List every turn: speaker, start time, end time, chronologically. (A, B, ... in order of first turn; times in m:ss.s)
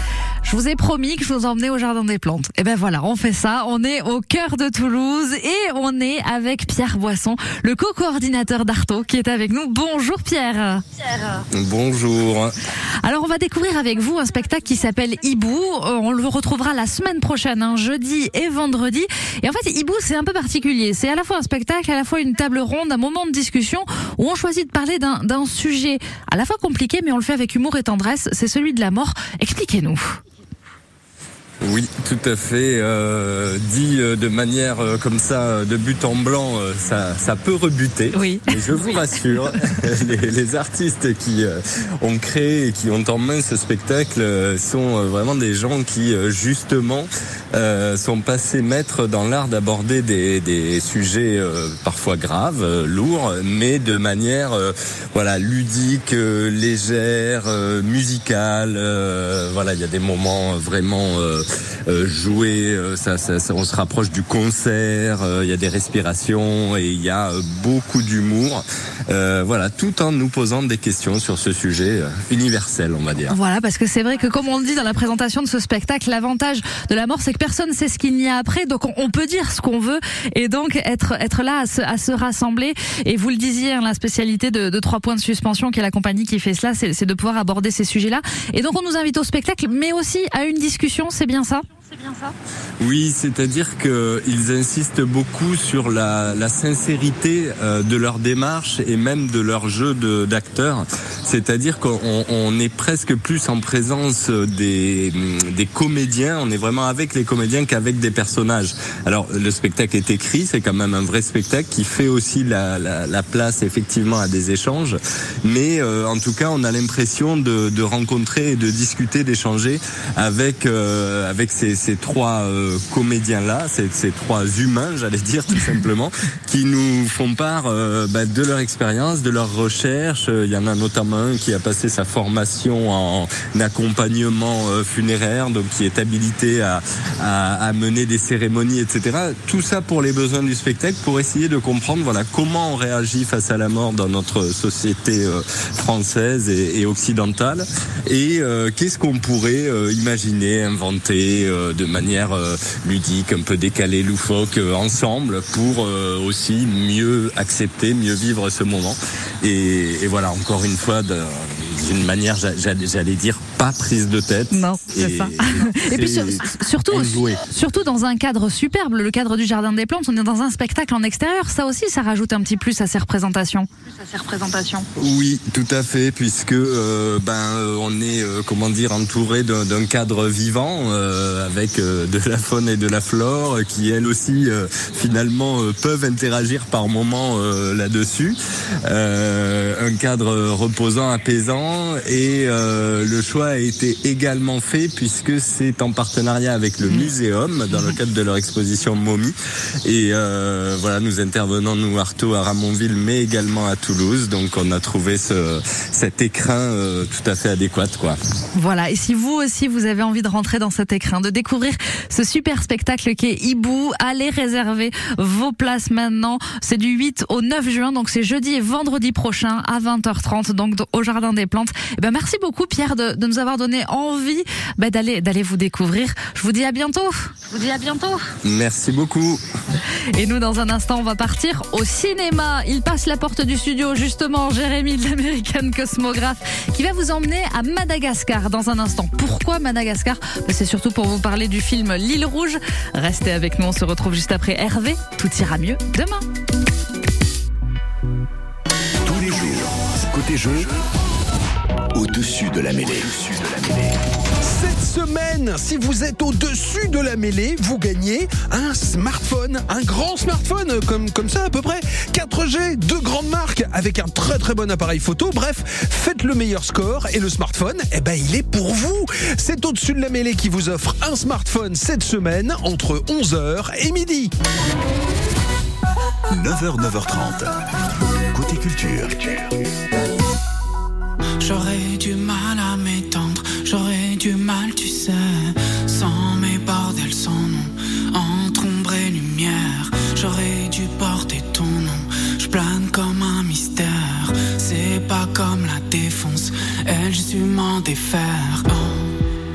0:00.4-0:11.4 A
0:11.5-0:12.5 B
0:13.0-0:30.2 A
0:31.6-1:13.4 B
0:38.1-0:39.0 A
1:13.3-1:32.3 A
1:32.8-2:47.4 B
2:44.5-2:54.9 A
2:55.0-3:28.2 B
3:16.8-3:17.1 A
3:28.6-3:48.2 A
3:48.4-3:49.4 B
3:50.1-4:06.2 A
4:09.0-4:10.7 C
4:11.9-4:14.0 C
4:14.4-4:34.3 D
4:36.3-4:37.6 C
4:38.3-4:39.4 C
4:41.4-4:59.1 E